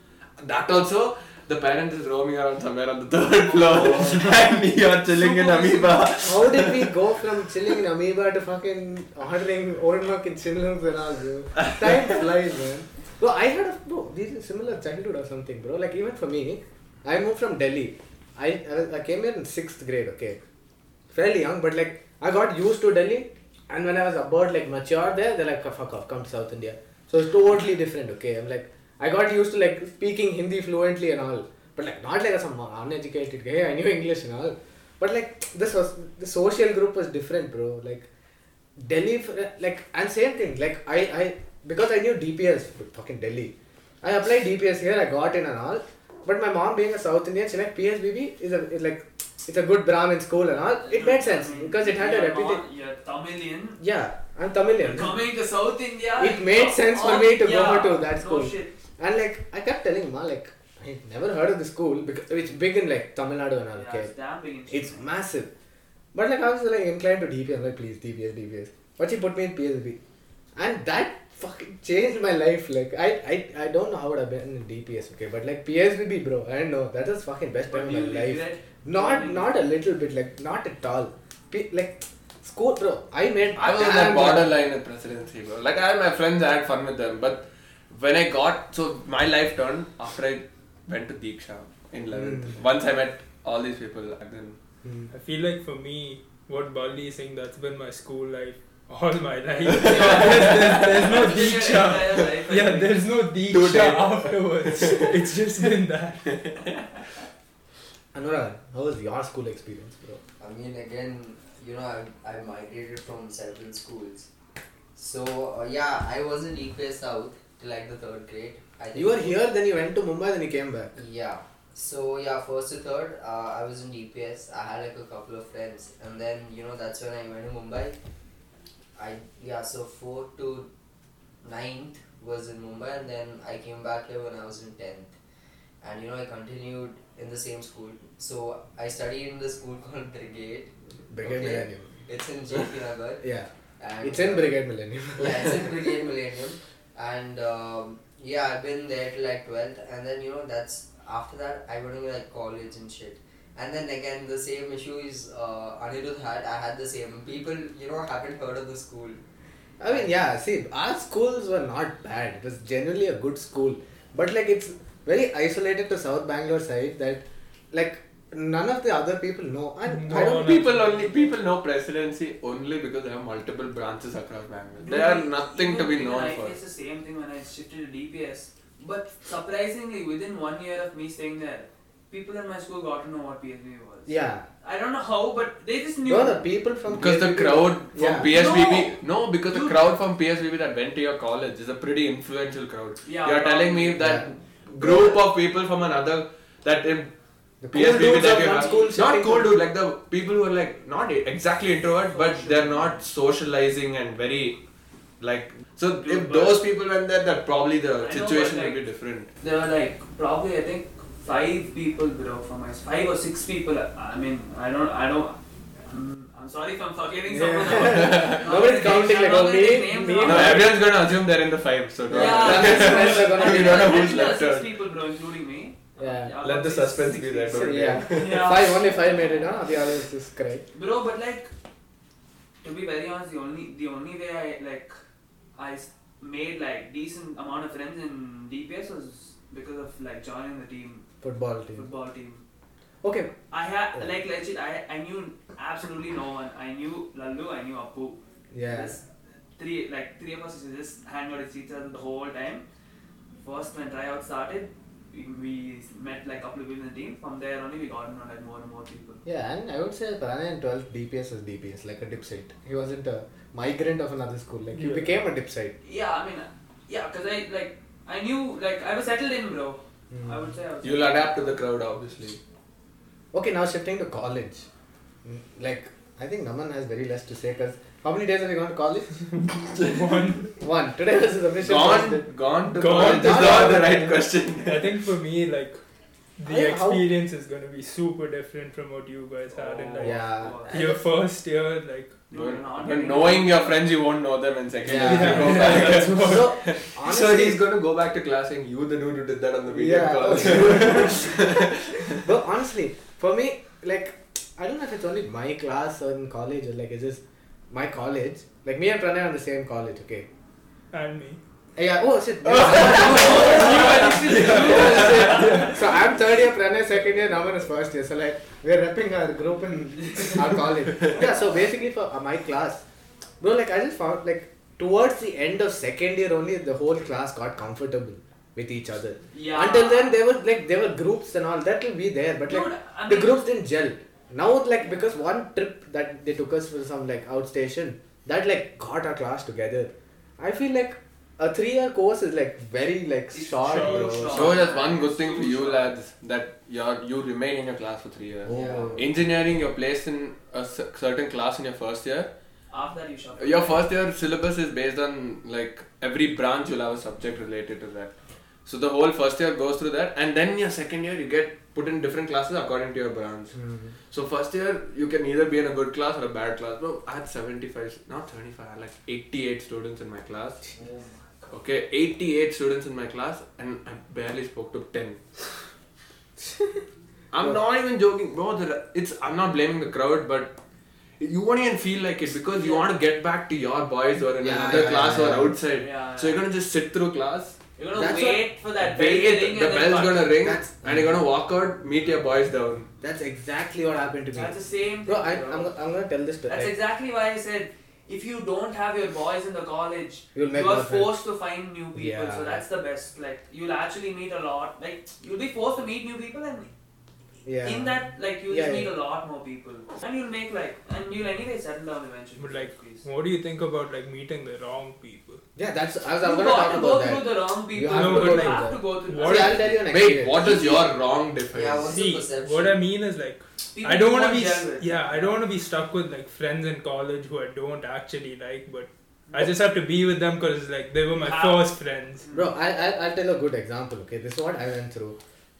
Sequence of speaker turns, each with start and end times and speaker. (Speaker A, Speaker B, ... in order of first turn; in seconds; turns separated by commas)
Speaker A: 0.4-7.0, Speaker B: 3.4-4.4, Speaker C: 3.8-4.2, Speaker B: 5.1-6.1, Speaker C: 6.2-20.4, Speaker C: 21.1-38.1, Speaker C: 38.8-52.6, Speaker B: 50.8-53.8, Speaker C: 53.8-55.1, Speaker B: 54.8-58.7, Speaker C: 56.2-64.1, Speaker B: 63.7-65.0, Speaker C: 64.7-65.5, Speaker C: 66.1-70.0, Speaker C: 70.6-84.5, Speaker B: 77.7-79.5, Speaker A: 83.5-94.6, Speaker C: 92.1-92.6, Speaker C: 94.8-95.1, Speaker D: 95.1-106.3, Speaker B: 99.6-103.0, Speaker A: 99.7-102.2, Speaker A: 103.5-105.2, Speaker A: 106.3-106.8, Speaker C: 108.1-110.2, Speaker E: 110.4-114.3, Speaker E: 114.9-119.3, Speaker C: 118.9-120.9, Speaker E: 121.0-128.0, Speaker E: 128.9-130.7, Speaker E: 131.4-135.1, Speaker E: 135.8-143.2, Speaker C: 141.1-141.9, Speaker C: 143.2-143.5, Speaker E: 143.8-144.5, Speaker C: 144.0-145.8, Speaker E: 145.2-159.2, Speaker C: 159.8-170.7, Speaker E: 159.9-160.1, Speaker D: 169.9-171.3, Speaker A: 170.1-176.6, Speaker B: 174.8-186.5, Speaker C: 184.1-184.4, Speaker C: 186.1-188.3, Speaker A: 186.9-197.1, Speaker B: 188.2-189.9, Speaker B: 193.0-194.3, Speaker C: 194.0-194.3, Speaker B: 194.8-195.1, Speaker C: 197.6-199.5, Speaker A: 197.7-204.6, Speaker B: 198.3-198.9, Speaker B: 202.1-203.0, Speaker A: 205.2-209.3, Speaker B: 206.0-206.6, Speaker B: 208.0-208.8, Speaker B: 209.4-215.4, Speaker B: 215.9-220.7, Speaker C: 217.3-220.7, Speaker A: 217.8-218.7, Speaker A: 220.2-224.7, Speaker C: 222.1-224.0, Speaker B: 222.1-229.1, Speaker C: 226.0-226.3, Speaker A: 226.4-228.5, Speaker C: 227.5-230.6, Speaker B: 230.7-231.5, Speaker B: 232.6-234.9, Speaker B: 235.6-241.0, Speaker C: 241.2-241.8, Speaker B: 241.7-242.4, Speaker C: 243.0-243.3, Speaker B: 243.5-249.0, Speaker C: 248.5-249.0, Speaker B: 249.6-252.6, Speaker B: 253.4-259.2, Speaker C: 259.2-265.7, Speaker D: 264.7-265.2, Speaker B: 265.8-271.6, Speaker C: 270.1-270.4, Speaker A: 270.8-272.4, Speaker C: 273.3-274.7, Speaker C: 275.2-279.2, Speaker A: 279.7-280.3, Speaker D: 279.8-280.5, Speaker C: 280.6-282.3, Speaker A: 281.6-285.0, Speaker D: 282.7-283.9, Speaker C: 282.8-284.2, Speaker D: 284.6-285.8, Speaker D: 286.4-292.2, Speaker C: 286.4-287.1, Speaker B: 289.5-290.7, Speaker C: 290.0-291.0, Speaker B: 292.3-293.9, Speaker A: 292.3-302.3, Speaker C: 294.9-297.6, Speaker D: 294.9-296.8, Speaker C: 299.7-301.7, Speaker C: 302.2-310.3, Speaker D: 310.9-311.4, Speaker C: 311.8-322.8, Speaker A: 312.6-315.7, Speaker B: 312.6-315.7, Speaker D: 313.9-315.8, Speaker C: 323.4-344.6, Speaker B: 329.3-330.2, Speaker B: 332.5-333.5, Speaker B: 334.8-335.1, Speaker B: 343.3-345.9, Speaker D: 343.6-344.3, Speaker A: 344.3-352.3, Speaker C: 348.4-349.0, Speaker B: 348.5-349.0, Speaker B: 352.7-353.8, Speaker A: 353.4-358.1, Speaker A: 358.6-363.6, Speaker C: 363.5-363.9, Speaker A: 364.1-370.7, Speaker B: 370.8-371.2, Speaker A: 371.5-375.2, Speaker C: 376.4-376.8, Speaker A: 377.3-380.6, Speaker A: 381.2-387.6, Speaker B: 382.5-382.9, Speaker C: 384.4-385.6, Speaker E: 384.6-385.1, Speaker B: 385.7-386.4, Speaker B: 387.8-390.4, Speaker C: 387.9-388.4, Speaker A: 388.8-392.9, Speaker C: 390.4-391.2, Speaker C: 393.0-394.5, Speaker B: 394.3-395.7, Speaker C: 395.1-396.7, Speaker B: 396.5-406.7, Speaker C: 400.3-401.1, Speaker C: 401.9-402.6, Speaker C: 407.4-408.0, Speaker B: 407.6-413.1, Speaker C: 408.5-408.9, Speaker D: 412.4-415.4, Speaker C: 415.6-420.4, Speaker B: 416.2-419.7, Speaker D: 417.9-419.8, Speaker A: 419.7-421.9, Speaker E: 420.4-420.9, Speaker E: 421.5-422.8, Speaker D: 421.8-432.2, Speaker B: 423.7-425.4, Speaker B: 431.1-431.7, Speaker B: 432.2-432.5, Speaker C: 432.3-435.2